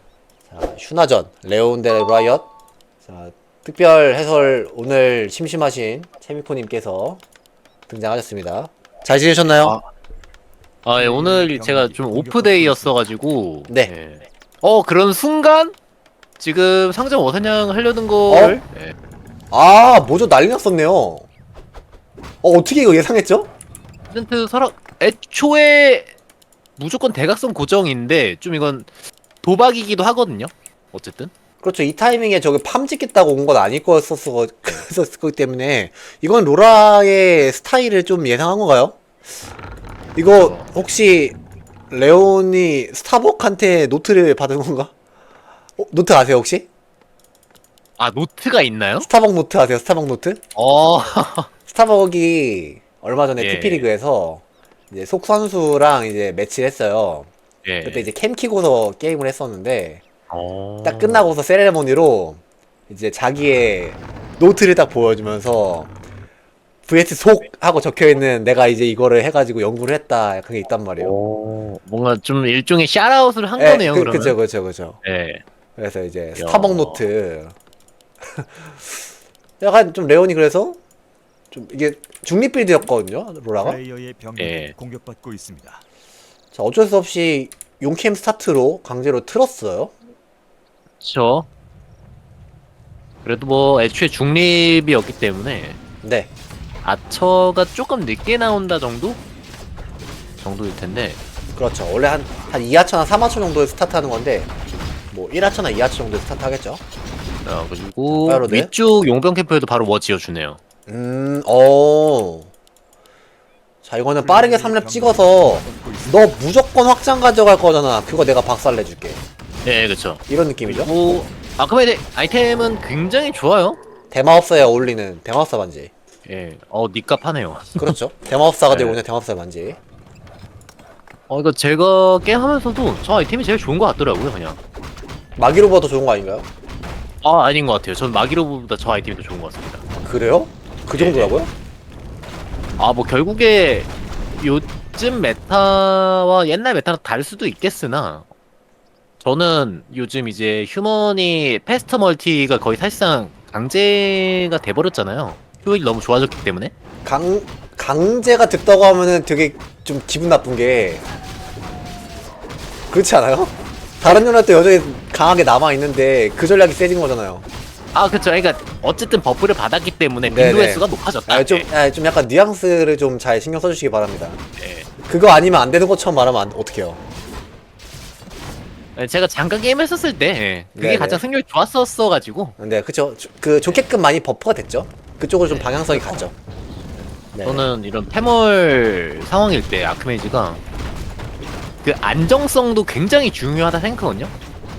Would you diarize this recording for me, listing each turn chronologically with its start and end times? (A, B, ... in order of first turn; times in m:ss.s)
0:00.5-0:02.5 A
0:03.0-0:07.2 A
0:07.9-0:09.8 A
0:09.4-0:09.9 B
0:10.8-0:15.8 B
0:10.9-0:13.1 C
0:16.4-0:18.9 B
0:18.3-0:18.6 A
0:19.5-0:21.3 A
0:22.4-0:23.5 A
0:24.1-0:26.1 B
0:26.8-0:28.9 B
0:29.4-0:31.3 B
0:31.6-0:39.0 A
0:40.2-0:41.4 A
0:40.4-0:40.7 B
0:41.9-0:44.9 A
0:45.8-0:46.7 A
0:48.0-0:49.1 B
0:49.0-0:50.4 A
0:50.6-0:51.5 B
0:51.7-0:57.3 A
0:53.4-0:53.9 B
0:57.6-0:58.1 B
0:57.8-1:00.0 A
1:00.3-1:01.3 B
1:00.8-1:05.9 A
1:06.9-1:11.2 A
1:11.0-1:14.4 B
1:13.6-1:15.0 A
1:15.0-1:15.4 B
1:15.8-1:17.6 A
1:16.4-1:17.1 B
1:18.2-1:19.1 A
1:19.6-1:20.8 A
1:21.5-1:23.8 A
1:23.6-1:25.8 C
1:24.4-1:24.7 B
1:26.5-1:29.9 A
1:31.0-1:31.5 B
1:33.2-1:35.8 B
1:36.0-1:36.3 A
1:36.8-1:39.2 B
1:40.4-1:41.2 B
1:41.6-1:44.5 A
1:45.1-1:46.8 A
1:47.4-1:50.6 B
1:48.1-1:48.7 A
1:50.9-1:52.5 A
1:53.8-1:59.2 A
1:54.2-1:56.3 C
1:59.6-2:03.8 B
2:00.3-2:00.9 A
2:04.1-2:05.9 A
2:06.3-2:08.0 B
2:07.8-2:09.8 A
2:08.7-2:09.0 B
2:11.3-2:14.6 B
2:15.4-2:16.5 A
2:17.2-2:19.8 B
2:20.0-2:21.5 A
2:20.9-2:21.4 B
2:22.8-2:28.3 B
2:29.2-2:36.7 B
2:37.0-2:41.0 A
2:42.9-2:47.4 A
2:47.9-2:51.7 B
2:50.2-2:54.4 A
2:54.6-2:54.9 B
2:55.1-2:57.0 A
2:59.0-3:02.6 B
3:00.8-3:01.2 A
3:02.6-3:06.3 A
3:03.6-3:03.9 B
3:05.4-3:06.3 B
3:07.0-3:10.6 B
3:07.3-3:07.7 A
3:11.8-3:14.3 B